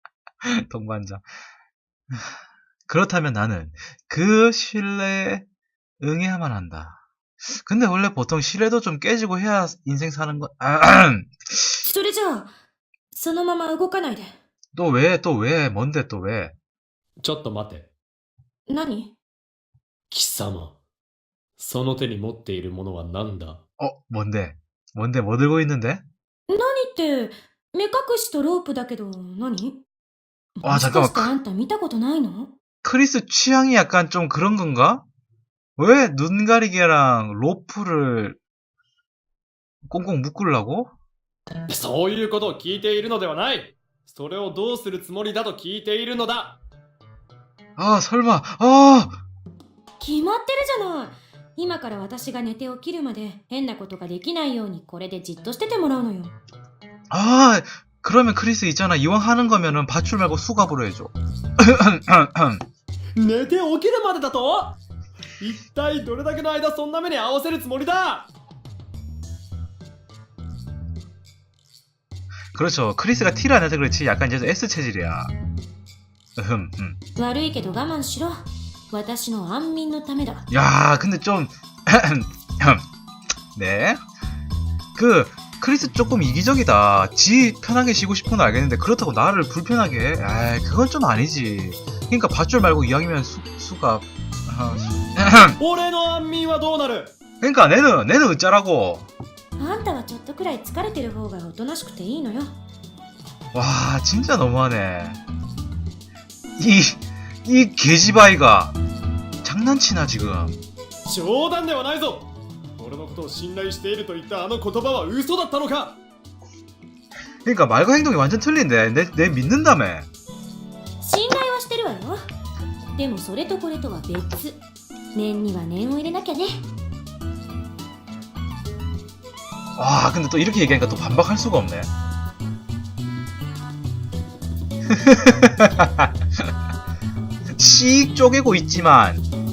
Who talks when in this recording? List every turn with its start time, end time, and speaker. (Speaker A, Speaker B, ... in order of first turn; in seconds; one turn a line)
Speaker A: 0.4-1.2
Speaker A: 2.1-5.4
Speaker A: 6.0-7.0
Speaker A: 7.5-11.7
Speaker B: 11.8-12.5
Speaker B: 13.1-14.4
Speaker A: 14.7-16.5
Speaker C: 17.2-17.9
Speaker B: 18.7-19.1
Speaker C: 20.1-20.8
Speaker C: 21.6-23.6
Speaker A: 23.8-26.0
Speaker B: 26.5-29.8
Speaker B: 30.6-32.5
Speaker A: 30.6-31.3
Speaker A: 32.8-35.0
Speaker A: 35.8-38.4
Speaker A: 39.9-40.9
Speaker C: 41.7-46.6
Speaker A: 47.8-49.2
Speaker B: 50.0-56.3
Speaker A: 57.1-62.6
Speaker C: 63.2-64.8
Speaker C: 65.4-68.3
Speaker A: 72.5-75.3
Speaker A: 76.4-77.0
Speaker B: 77.2-80.5
Speaker A: 80.5-82.8
Speaker A: 83.5-84.0
Speaker A: 84.9-95.6
Speaker C: 95.6-97.1
Speaker A: 97.4-99.1
Speaker B: 99.6-102.6
Speaker A: 103.5-105.2
Speaker A: 106.6-108.7
Speaker A: 109.4-110.6
Speaker C: 111.0-116.0
Speaker A: 117.4-120.1
Speaker B: 121.0-122.2
Speaker B: 123.0-124.6
Speaker B: 125.1-126.6
Speaker A: 129.8-131.9
Speaker A: 134.9-136.1
Speaker A: 137.6-139.2